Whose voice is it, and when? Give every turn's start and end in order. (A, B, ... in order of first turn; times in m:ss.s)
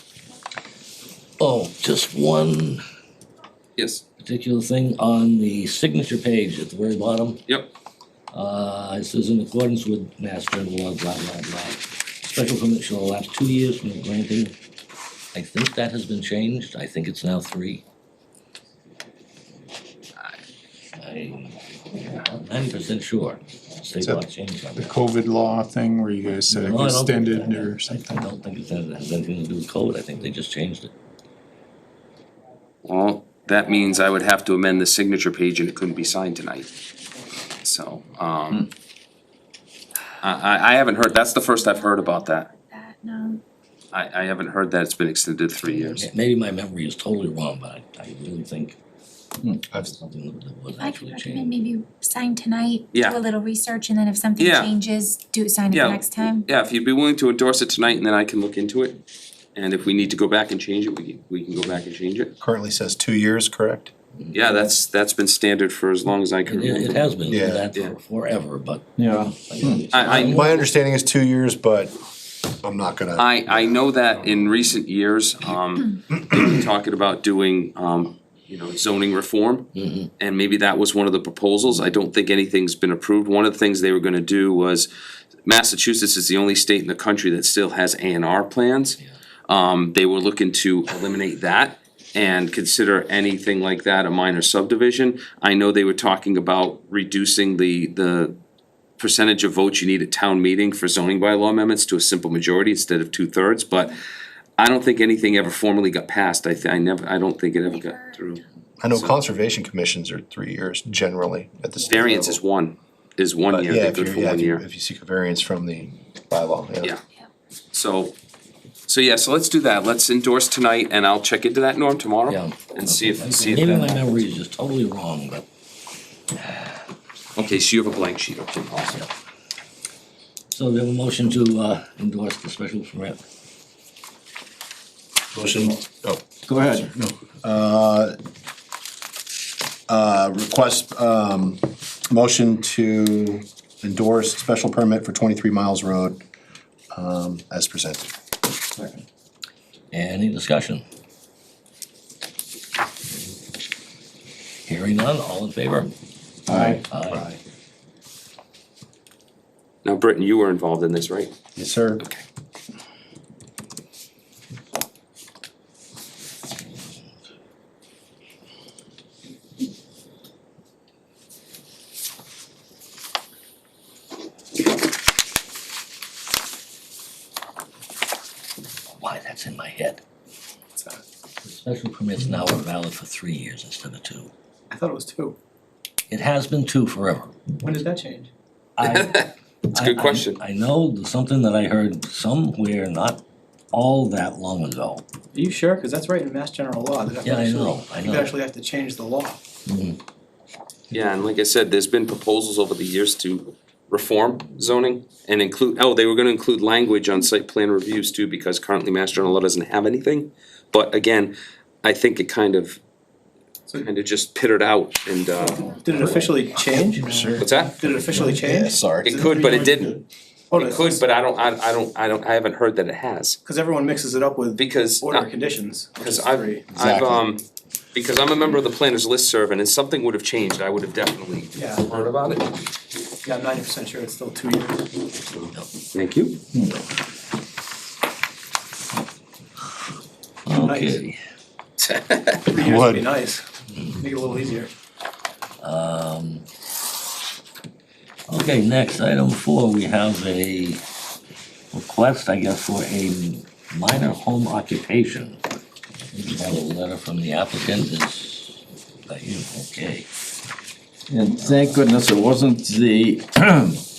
0:01.4-0:02.8 A
0:03.8-0:04.0 B
0:04.2-0:07.4 A
0:08.3-0:14.5 A
0:15.3-0:17.8 A
0:21.0-0:25.0 A
0:24.8-0:28.3 C
0:26.2-0:30.9 A
0:32.8-0:36.7 B
0:37.6-0:38.7 B
0:40.2-0:42.5 B
0:41.3-0:43.4 D
0:43.9-0:46.1 B
0:45.6-0:48.8 A
0:49.7-0:51.6 A
0:50.8-0:56.5 D
0:52.9-0:53.2 B
0:54.4-0:54.8 B
0:55.7-0:59.0 B
0:59.5-1:02.3 B
1:02.4-1:03.9 E
1:04.3-1:07.2 B
1:06.4-1:10.7 A
1:07.3-1:07.7 E
1:09.0-1:09.8 F
1:09.9-1:10.5 B
1:10.1-1:12.0 E
1:12.6-1:13.7 E
1:13.2-1:24.9 B
1:19.7-1:20.1 A
1:25.4-1:38.4 B
1:39.0-1:44.0 B
1:44.6-1:48.4 B
1:47.6-1:48.4 D
1:48.8-1:52.4 E
1:48.9-1:49.2 B
1:51.9-1:54.6 B
1:53.5-1:56.9 E
1:57.7-1:58.1 B
1:58.9-2:04.0 B
2:02.3-2:05.4 A
2:06.4-2:06.7 A
2:07.4-2:09.0 B
2:10.5-2:13.2 A
2:15.3-2:18.1 E
2:16.4-2:16.9 F
2:19.9-2:26.2 E
2:26.9-2:28.1 E
2:29.9-2:30.8 A
2:34.6-2:35.9 A
2:36.5-2:36.8 F
2:36.5-2:37.3 E
2:36.9-2:37.3 A
2:39.8-2:41.3 B
2:41.6-2:42.0 E
2:59.0-3:00.0 A
3:00.7-3:01.0 G
3:01.4-3:04.3 A
3:04.7-3:05.4 G
3:06.1-3:07.4 A
3:07.6-3:08.3 G
3:08.8-3:15.0 A
3:08.8-3:10.4 B
3:15.3-3:19.4 G
3:17.2-3:18.3 A
3:19.6-3:20.0 A
3:20.9-3:32.8 B
3:33.8-3:36.1 B
3:35.4-3:40.0 G
3:37.0-3:37.5 E
3:37.4-3:37.8 B
3:38.1-3:39.4 E
3:39.0-3:40.0 B
3:40.5-3:41.1 G
3:40.5-3:43.4 B
3:43.4-3:46.7 G
3:44.6-3:45.3 B
3:46.0-3:47.4 B
3:46.7-3:47.2 F
3:47.9-3:52.6 B
3:51.5-3:51.8 G
3:53.2-3:54.9 G
3:55.9-3:56.4 B
3:56.5-3:56.8 F
4:00.4-4:01.2 A
4:00.5-4:01.0 G
4:02.4-4:03.4 G
4:02.6-4:03.0 E
4:04.0-4:04.7 G
4:05.6-4:06.4 A
4:08.3-4:10.8 A
4:11.7-4:15.4 A
4:16.1-4:20.1 A
4:21.1-4:23.8 F